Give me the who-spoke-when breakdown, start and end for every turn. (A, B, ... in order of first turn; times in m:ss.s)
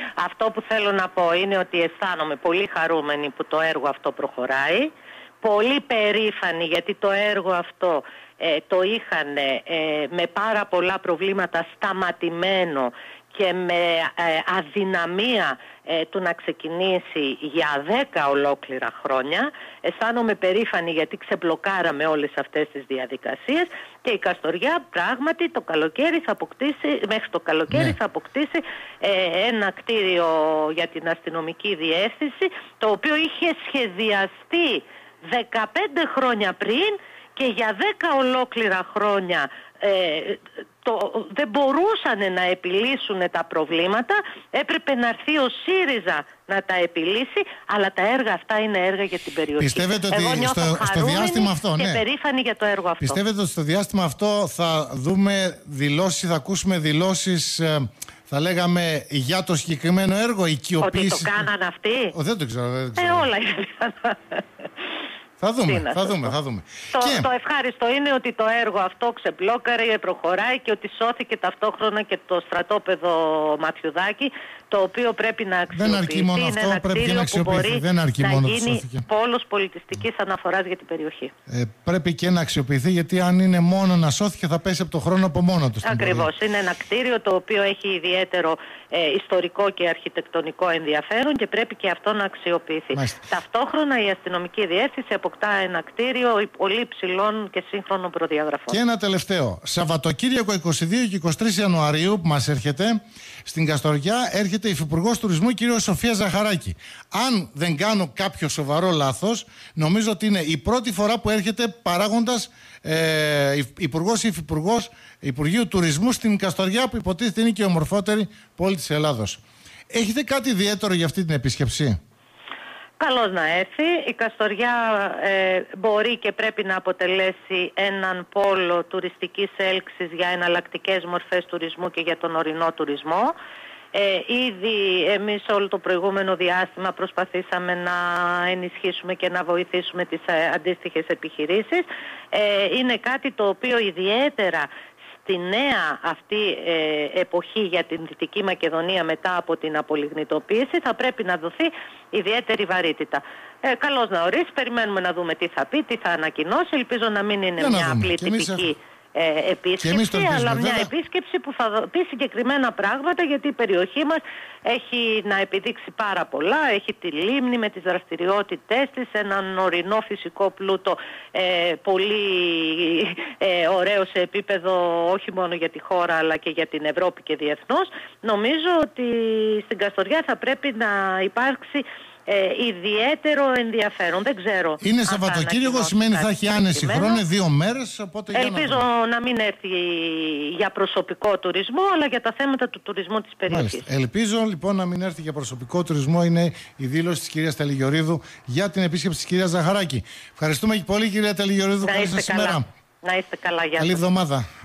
0:00.2-0:53.2 A
0:49.6-0:52.0 B
0:53.0-1:01.4 B
1:00.8-1:02.1 A
1:02.1-1:03.3 B
1:03.0-1:04.6 A
1:05.4-1:07.3 B
1:05.6-1:06.3 A
1:06.9-1:21.3 A
1:15.7-1:19.0 B
1:21.5-1:26.3 B
1:25.8-1:38.8 A
1:32.9-1:33.2 B
1:38.7-2:02.0 B
2:03.0-2:13.3 A
2:13.9-2:24.7 A
2:25.2-3:07.2 A
2:37.6-2:38.7 B
2:39.8-2:40.9 B
3:04.8-3:08.8 B
3:08.3-3:13.9 A
3:13.5-3:22.6 B
3:21.8-3:24.0 A
3:23.8-3:24.4 B